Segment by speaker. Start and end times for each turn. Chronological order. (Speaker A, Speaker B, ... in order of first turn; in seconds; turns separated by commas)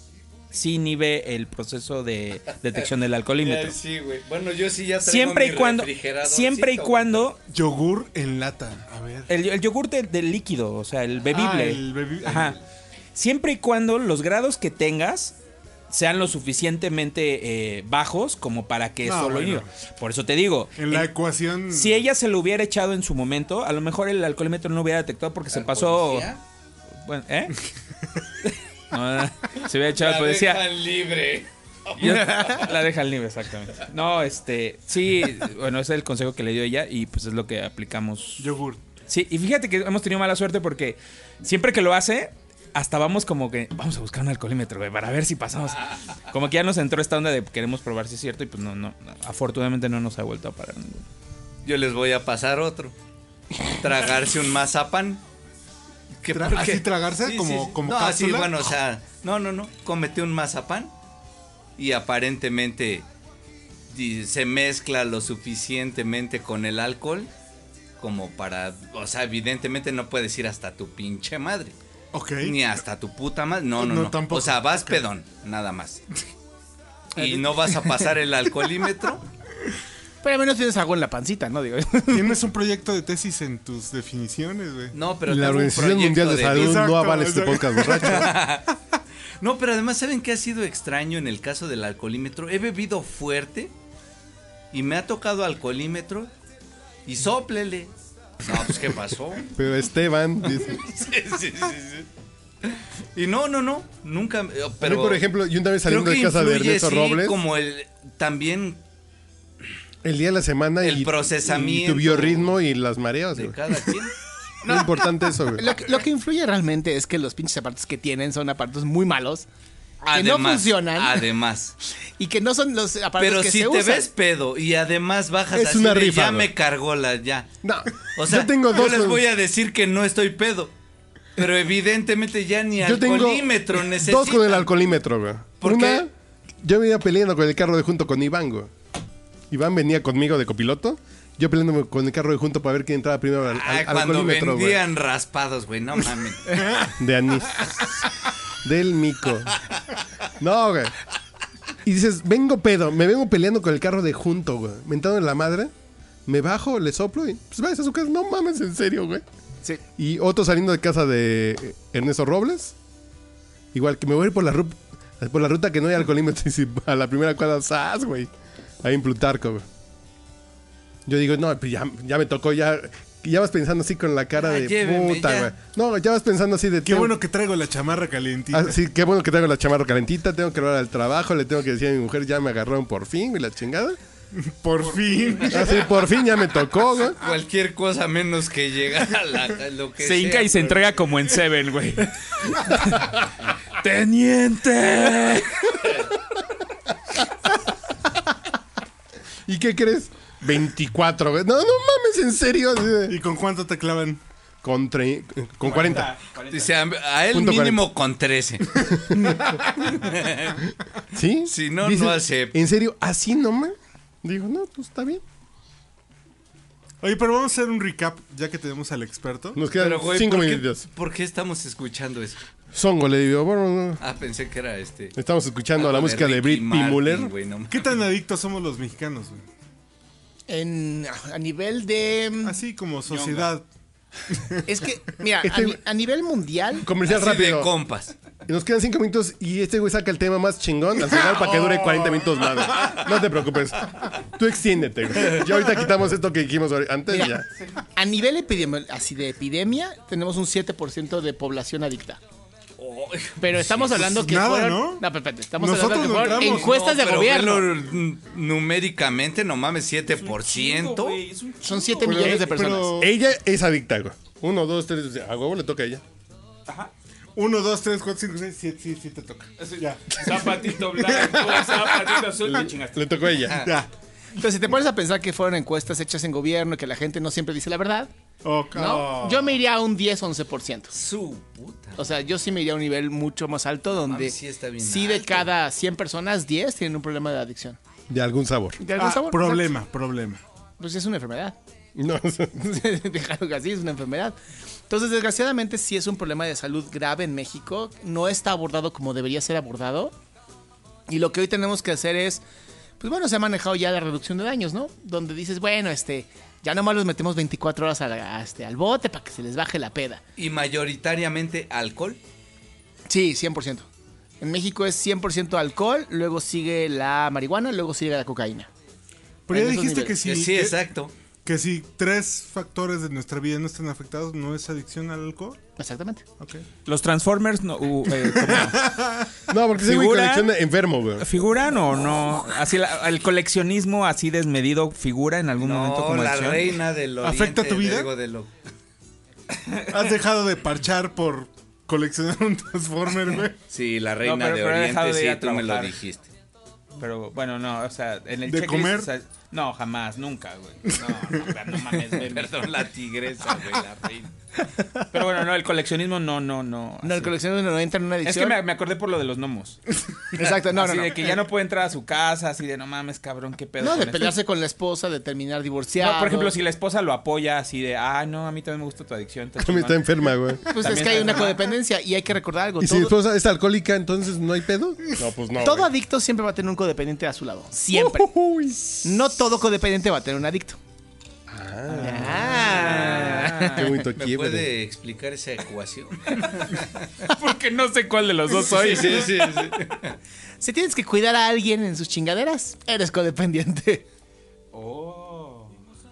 Speaker A: 0.5-3.8, Speaker B: 3.4-7.3, Speaker A: 5.0-7.4, Speaker C: 7.5-9.3, Speaker A: 9.3-12.6, Speaker C: 11.2-12.6, Speaker A: 13.1-15.3, Speaker A: 15.9-21.1, Speaker C: 19.0-19.7, Speaker C: 20.8-22.0, Speaker A: 21.7-26.4, Speaker B: 25.5-26.4, Speaker A: 27.0-27.6, Speaker A: 28.9-30.6, Speaker B: 30.0-32.7, Speaker A: 32.0-38.5, Speaker D: 32.1-32.6, Speaker C: 38.4-38.8, Speaker A: 39.1-51.1, Speaker B: 51.6-52.9, Speaker B: 53.7-55.2, Speaker B: 56.2-60.9, Speaker C: 56.3-58.8, Speaker B: 61.8-63.0, Speaker B: 63.9-67.3, Speaker B: 68.0-71.8, Speaker C: 72.1-72.6, Speaker B: 72.4-76.0, Speaker C: 73.8-75.0, Speaker B: 77.2-79.2, Speaker D: 77.2-77.8, Speaker D: 80.2-82.4, Speaker C: 82.1-85.0, Speaker B: 84.9-86.9, Speaker E: 85.3-88.3, Speaker C: 86.5-88.5, Speaker B: 88.0-88.7, Speaker B: 89.4-93.7, Speaker B: 94.7-96.3, Speaker B: 97.1-97.9, Speaker B: 98.4-99.5, Speaker E: 99.5-100.8, Speaker B: 100.6-102.1, Speaker B: 103.2-105.2, Speaker E: 104.8-107.4, Speaker B: 105.8-108.8, Speaker E: 110.0-113.6, Speaker B: 110.8-112.6, Speaker B: 113.3-114.1, Speaker E: 114.6-115.7, Speaker D: 115.5-119.5, Speaker B: 120.0-121.8, Speaker D: 120.1-121.2, Speaker D: 122.2-124.1, Speaker B: 123.2-127.5, Speaker E: 125.5-126.5, Speaker E: 127.6-129.2, Speaker B: 128.2-130.7, Speaker B: 131.4-134.7, Speaker E: 132.8-136.1, Speaker B: 135.6-136.1, Speaker E: 136.6-138.7, Speaker E: 139.5-144.8, Speaker B: 143.5-146.6, Speaker C: 146.6-146.9, Speaker E: 147.0-147.9, Speaker E: 148.6-149.6, Speaker E: 150.4-150.9, Speaker E: 151.8-155.7, Speaker E: 156.3-159.2, Speaker E: 160.0-162.8, Speaker E: 163.7-168.3, Speaker E: 168.8-169.7, Speaker E: 171.1-177.1, Speaker B: 174.4-175.5, Speaker C: 176.8-178.8, Speaker E: 178.5-184.0, Speaker C: 184.3-185.8, Speaker E: 185.5-187.2, Speaker B: 187.2-190.8, Speaker A: 190.0-196.0, Speaker E: 199.5-203.2, Speaker C: 203.1-204.2, Speaker E: 204.6-206.1, Speaker A: 205.6-206.7, Speaker B: 206.5-209.0, Speaker E: 207.3-207.9, Speaker E: 209.0-209.6, Speaker B: 210.1-210.6, Speaker E: 211.1-215.2, Speaker B: 211.5-212.7, Speaker C: 217.0-219.6, Speaker E: 219.6-220.8, Speaker B: 219.8-222.4, Speaker E: 222.7-224.0, Speaker B: 224.0-225.2, Speaker E: 225.2-227.3, Speaker B: 225.8-227.9, Speaker C: 227.7-229.5, Speaker D: 230.5-232.6, Speaker C: 232.4-233.7, Speaker A: 233.1-233.5, Speaker D: 234.7-236.9, Speaker E: 235.4-235.8, Speaker E: 236.8-237.7, Speaker B: 237.1-238.1, Speaker E: 238.5-247.5, Speaker C: 241.3-242.2, Speaker D: 247.1-247.4, Speaker D: 248.0-252.2, Speaker B: 252.8-253.8, Speaker D: 253.4-257.7, Speaker C: 253.8-255.1, Speaker C: 255.6-256.7, Speaker B: 256.3-261.2, Speaker A: 260.1-262.4, Speaker D: 261.6-263.0, Speaker C: 262.1-263.1, Speaker E: 263.0-266.0, Speaker A: 266.7-266.9, Speaker C: 267.4-272.5, Speaker A: 269.6-273.2, Speaker E: 272.9-273.7, Speaker B: 273.4-273.7, Speaker C: 273.5-273.9, Speaker D: 274.4-278.1, Speaker C: 278.4-279.6, Speaker D: 278.7-280.9, Speaker B: 280.9-282.2, Speaker D: 282.0-287.8, Speaker B: 284.0-285.5, Speaker E: 288.1-288.8, Speaker D: 288.8-289.7, Speaker C: 289.0-290.4, Speaker D: 290.8-291.6, Speaker E: 291.9-292.7, Speaker D: 292.6-294.4, Speaker D: 294.9-300.1, Speaker D: 301.1-302.4, Speaker D: 303.0-310.2, Speaker B: 310.4-312.2, Speaker D: 313.1-313.9, Speaker D: 314.4-318.7, Speaker C: 319.5-320.8, Speaker D: 319.5-320.2, Speaker B: 320.2-321.1, Speaker C: 321.4-325.6, Speaker D: 325.8-326.2, Speaker C: 326.4-326.7, Speaker A: 326.9-328.8, Speaker C: 328.1-329.3, Speaker E: 329.5-331.3, Speaker A: 329.8-330.5, Speaker A: 331.2-336.8, Speaker B: 335.6-338.5, Speaker C: 337.2-338.1, Speaker A: 339.6-339.9, Speaker C: 339.9-343.6, Speaker B: 343.7-346.3, Speaker A: 344.2-346.0, Speaker A: 347.0-352.8, Speaker C: 348.5-349.1, Speaker B: 352.2-354.3, Speaker D: 354.6-355.1, Speaker A: 355.1-357.3, Speaker D: 357.0-358.6, Speaker A: 358.2-359.8, Speaker D: 360.4-361.2, Speaker A: 360.6-364.4, Speaker D: 363.8-366.6, Speaker A: 366.0-370.1, Speaker E: 369.6-370.8, Speaker D: 370.7-373.2, Speaker A: 370.8-371.7, Speaker E: 372.8-375.9, Speaker D: 375.6-378.3, Speaker E: 377.9-378.9, Speaker D: 379.0-380.8, Speaker E: 381.5-384.7, Speaker D: 382.0-384.0, Speaker A: 382.4-383.9, Speaker B: 384.2-387.1, Speaker A: 387.3-389.4, Speaker B: 388.6-390.2, Speaker D: 390.6-394.1, Speaker A: 394.7-395.7